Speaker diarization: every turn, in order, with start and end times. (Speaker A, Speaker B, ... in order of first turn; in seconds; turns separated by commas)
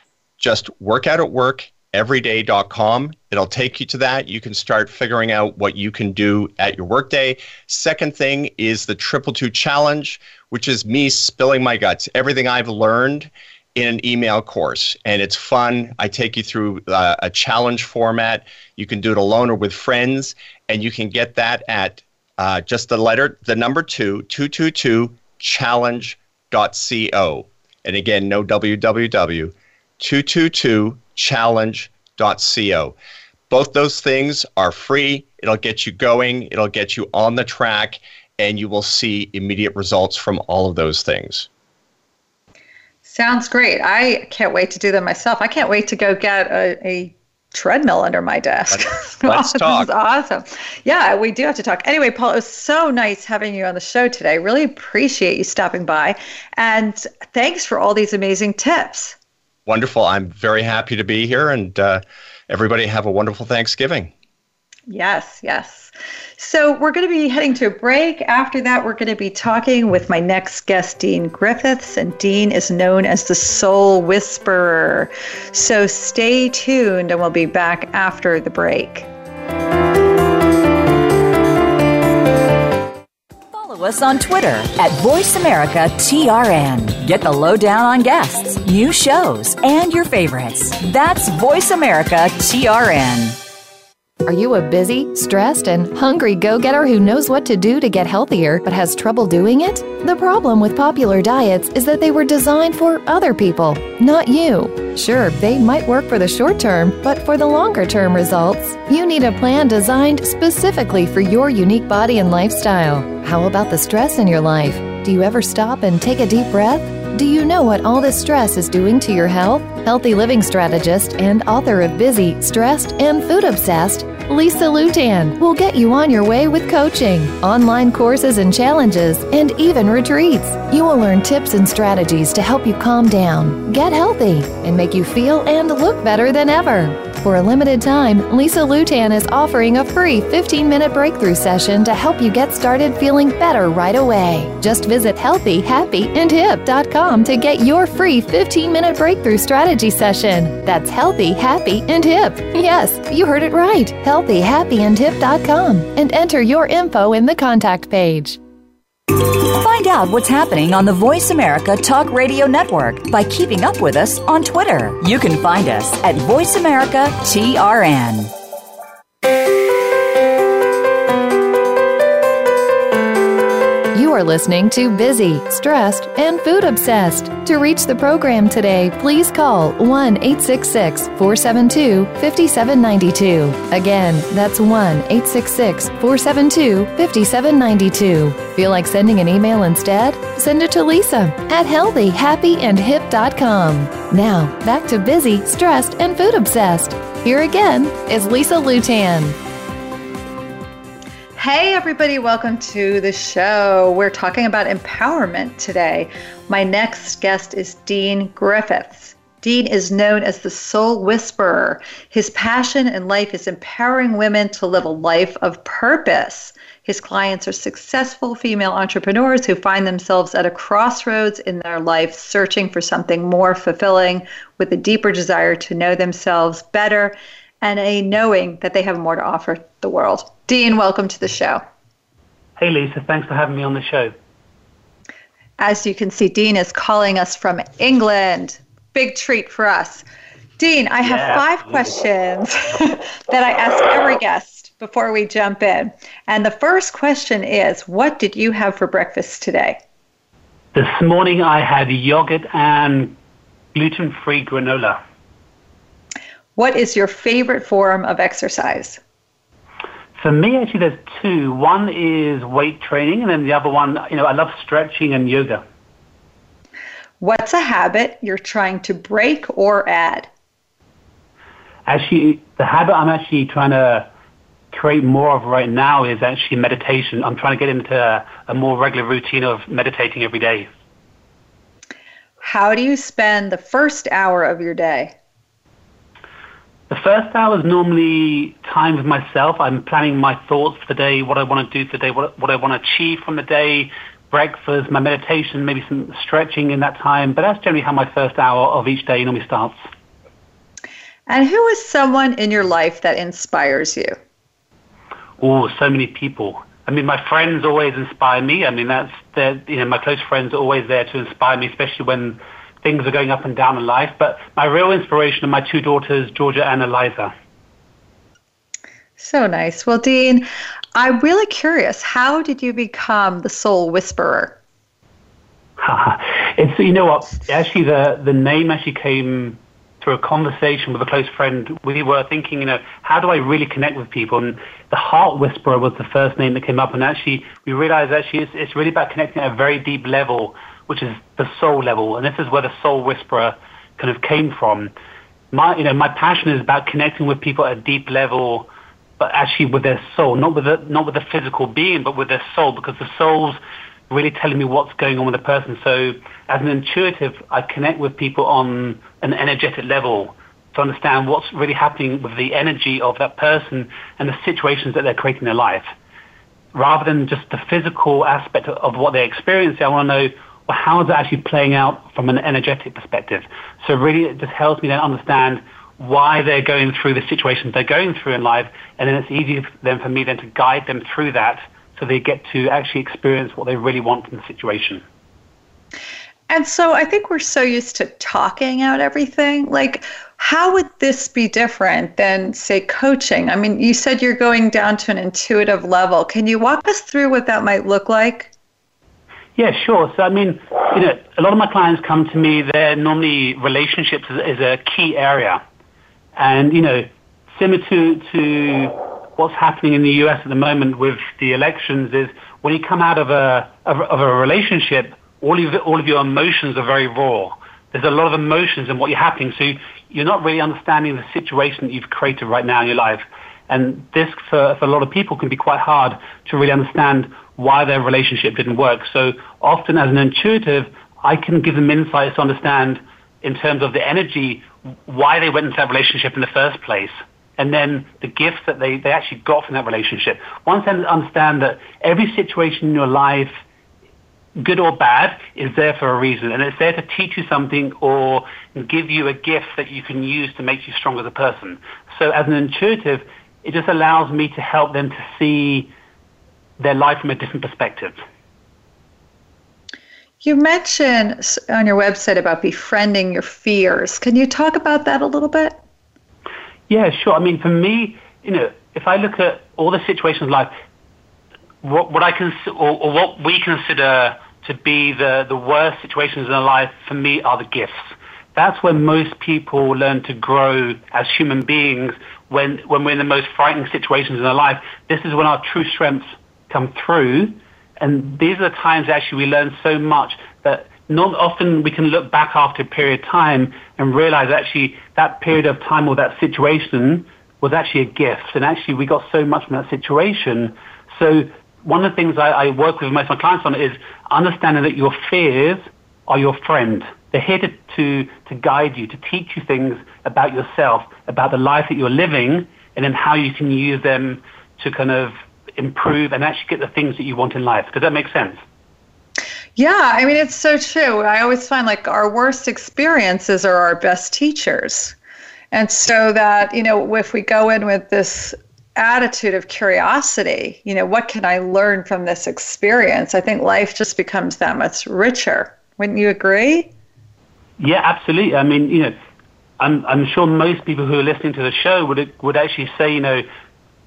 Speaker A: 0.4-33.0, Speaker A: 33.5-41.5, Speaker B: 43.1-59.2, Speaker A: 48.7-49.9, Speaker A: 59.7-64.1, Speaker B: 64.9-79.1, Speaker C: 83.5-93.4, Speaker D: 94.2-158.4, Speaker C: 159.6-168.3, Speaker D: 173.9-199.4, Speaker B: 201.4-231.6, Speaker E: 232.6-234.1, Speaker B: 235.6-240.1, Speaker B: 240.6-249.8, Speaker E: 241.0-241.5, Speaker E: 250.7-253.2, Speaker E: 253.7-255.0, Speaker B: 256.6-259.0, Speaker E: 260.2-265.6, Speaker B: 267.2-270.3, Speaker E: 271.9-274.1, Speaker E: 274.7-280.7, Speaker B: 282.4-285.1, Speaker E: 286.9-299.8, Speaker B: 301.3-304.2, Speaker E: 305.4-317.3, Speaker B: 319.2-324.6, Speaker E: 325.8-344.9, Speaker E: 345.5-348.7, Speaker E: 349.2-365.9, Speaker E: 366.7-385.0, Speaker B: 386.5-398.5, Speaker E: 399.6-405.6, Speaker E: 406.4-443.6, Speaker E: 444.6-455.9, Speaker E: 456.8-458.2, Speaker B: 460.4-465.8, Speaker E: 466.9-470.7, Speaker E: 471.8-518.6, Speaker B: 519.8-525.1, Speaker B: 525.7-536.9, Speaker E: 537.8-539.2, Speaker E: 539.8-543.5